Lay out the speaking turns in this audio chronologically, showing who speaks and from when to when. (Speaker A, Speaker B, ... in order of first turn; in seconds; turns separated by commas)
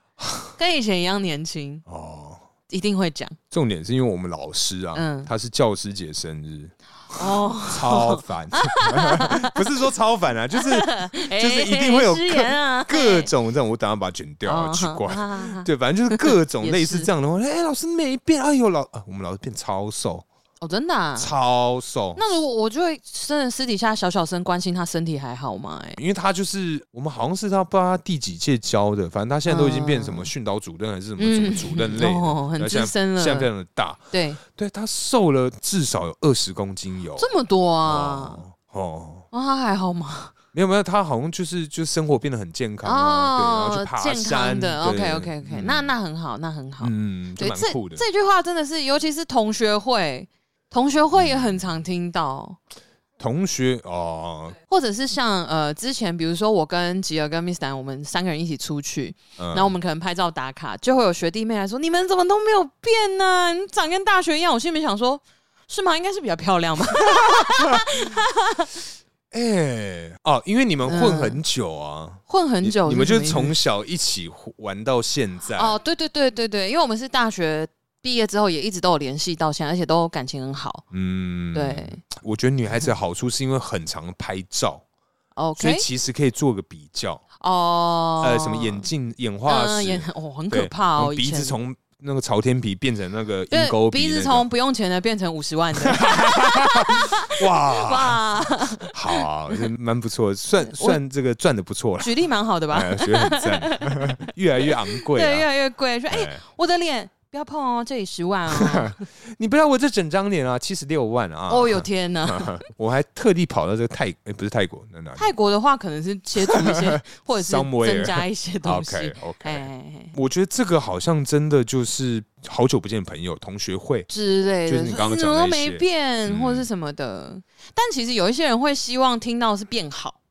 Speaker A: 0.2-0.5, Speaker B: 0.6-1.8, Speaker A: 1.9-2.4, Speaker B: 2.7-3.4, Speaker A: 3.5-20.2, Speaker B: 4.9-5.3, Speaker B: 7.1-9.6, Speaker B: 10.5-13.3, Speaker B: 14.4-17.1, Speaker B: 20.6-21.3, Speaker A: 21.2-22.2, Speaker B: 22.1-26.0, Speaker A: 26.0-37.3, Speaker B: 29.4-30.3, Speaker B: 31.2-33.5, Speaker B: 34.1-34.4, Speaker B: 37.2-38.4, Speaker A: 37.8-39.2, Speaker B: 39.3-40.3, Speaker A: 40.5-45.9, Speaker B: 42.8-52.6, Speaker A: 46.8-48.0, Speaker A: 51.1-51.6, Speaker A: 53.2-54.6, Speaker B: 54.7-68.7, Speaker A: 59.4-59.7, Speaker A: 67.1-67.8, Speaker A: 69.3-75.7, Speaker B: 70.8-71.4, Speaker B: 72.3-73.5, Speaker B: 75.5-80.8, Speaker A: 80.9-84.8, Speaker B: 81.5-82.0, Speaker B: 85.3-85.9, Speaker A: 85.5-87.2, Speaker B: 87.4-88.9, Speaker A: 88.2-94.5, Speaker B: 89.5-91.6, Speaker B: 93.5-99.2, Speaker A: 95.8-98.2, Speaker A: 98.8-102.1, Speaker B: 100.6-101.0, Speaker B: 102.0-109.0, Speaker A: 102.7-105.5, Speaker A: 106.1-106.4, Speaker A: 108.5-115.3, Speaker B: 111.5-112.6, Speaker B: 115.2-120.1, Speaker A: 116.4-124.1, Speaker B: 124.1-130.2, Speaker A: 124.7-126.7